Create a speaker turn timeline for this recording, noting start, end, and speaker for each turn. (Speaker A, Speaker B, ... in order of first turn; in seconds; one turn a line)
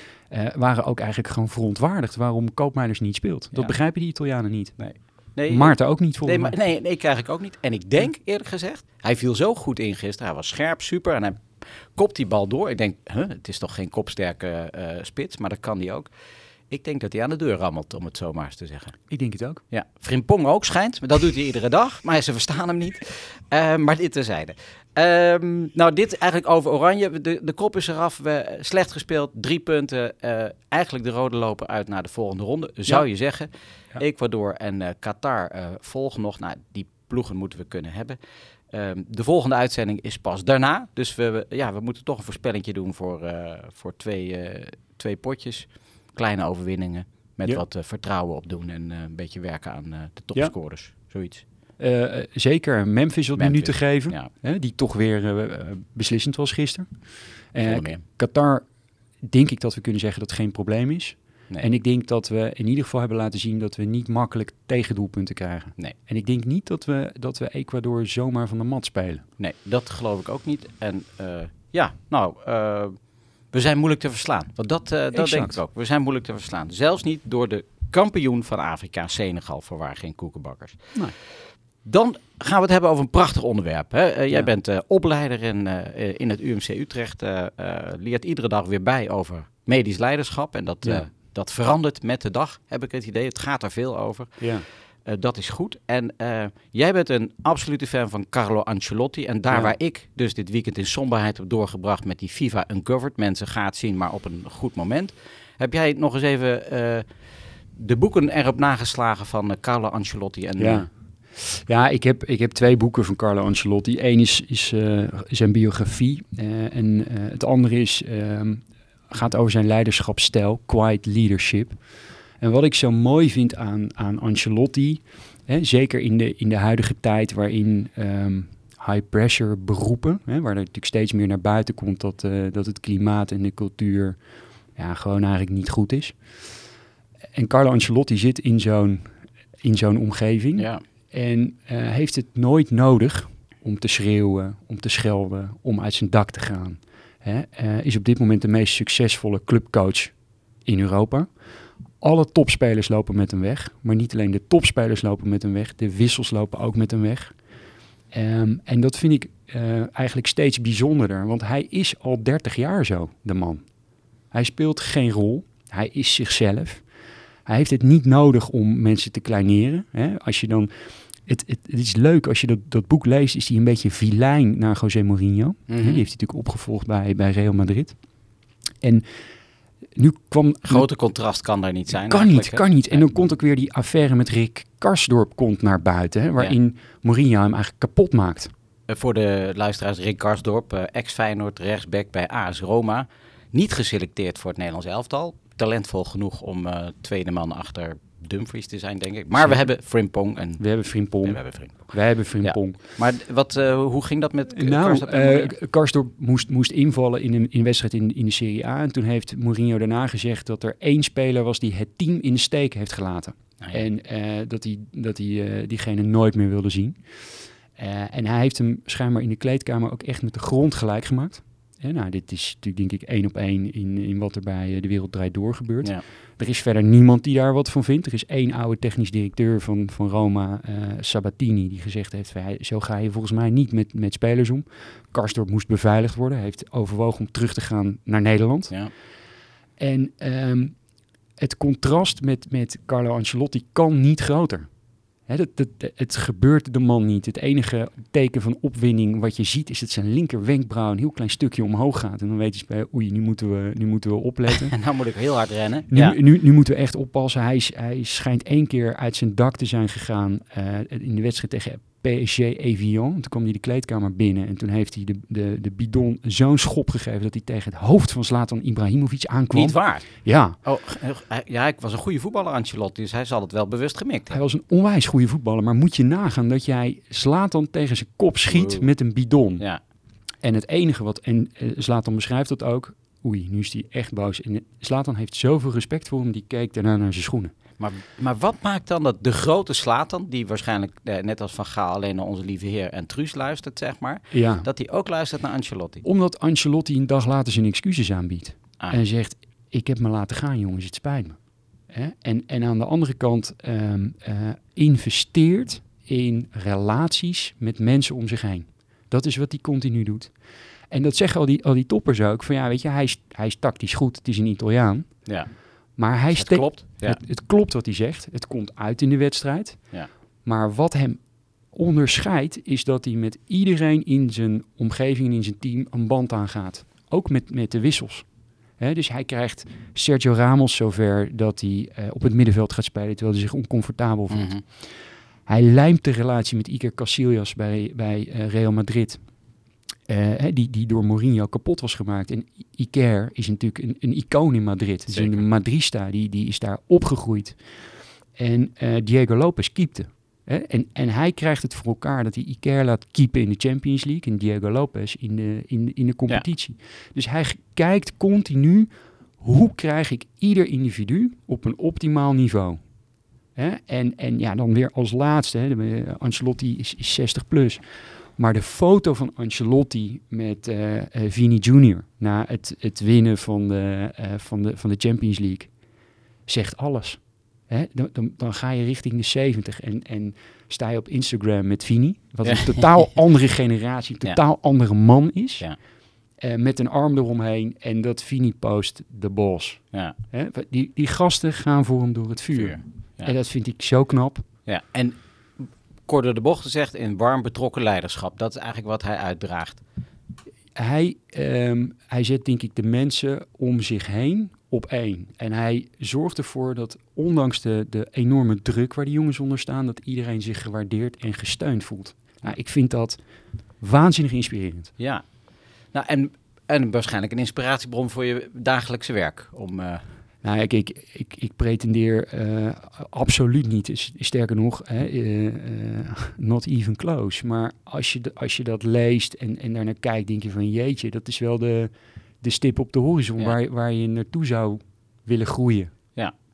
Speaker A: 0.3-4.9
Speaker B: 4.8-16.1
Speaker A: 5.5-6.5
Speaker B: 16.7-19.0
Speaker A: 19.1-19.6
Speaker B: 19.7-38.2
Speaker B: 38.7-51.4
Speaker A: 51.8-57.0
Speaker B: 53.4-54.3
Speaker A: 57.5-58.7
Speaker B: 57.6-58.0
Speaker A: 59.2-69.2
Speaker B: 69.4-81.0
Speaker A: 75.1-75.5
Speaker B: 81.8-94.5
Speaker A: 94.4-94.7
Speaker B: 95.0-107.1
Speaker A: 99.5-99.8
Speaker B: 107.7-110.9
Speaker A: 110.6-121.8
Speaker A: 122.4-134.2
Speaker A: 134.8-136.2
Speaker A: 137.3-151.3
Speaker A: 152.0-157.4
Speaker A: 158.1-163.7
Speaker A: 164.3-166.9
Speaker A: 167.4-170.7
Speaker A: 171.2-178.0
Speaker B: 175.7-176.0
Speaker A: 178.8-179.1
Speaker A: 179.9-180.9
Speaker B: 180.7-183.0
Speaker A: 181.9-188.5
Speaker B: 188.9-205.5
Speaker A: 199.3-199.7
Speaker A: 200.6-202.8
Speaker A: 204.5-217.1
Speaker A: 217.7-238.7
Speaker A: 239.8-240.8
Speaker A: 241.4-244.7
Speaker A: 245.3-254.7
Speaker B: 254.5-256.1
Speaker A: 255.9-270.6
Speaker B: 269.5-274.4
Speaker A: 274.3-279.6
Speaker B: 278.5-278.9
Speaker A: 280.4-287.5
Speaker B: 287.8-296.0
Speaker A: 294.3-294.7
Speaker A: 296.0-310.4
Speaker A: 310.9-315.4
Speaker B: 315.3-315.5
Speaker A: 315.9-334.9
Speaker B: 316.3-317.2
Speaker B: 334.3-334.6
Speaker A: 335.5-339.2
Speaker A: 340.1-347.6
Speaker B: 345.1-345.4
Speaker A: 348.3-362.8
Speaker A: 363.5-375.7
Speaker A: 376.5-385.7
Speaker B: 382.4-382.9
Speaker A: 386.4-394.4
Speaker B: 392.5-393.3
Speaker B: 394.6-399.8
Speaker A: 400.7-413.2
Speaker A: 413.8-414.9
Speaker B: 415.0-415.2
Speaker B: 415.9-420.0
Speaker A: 420.4-435.9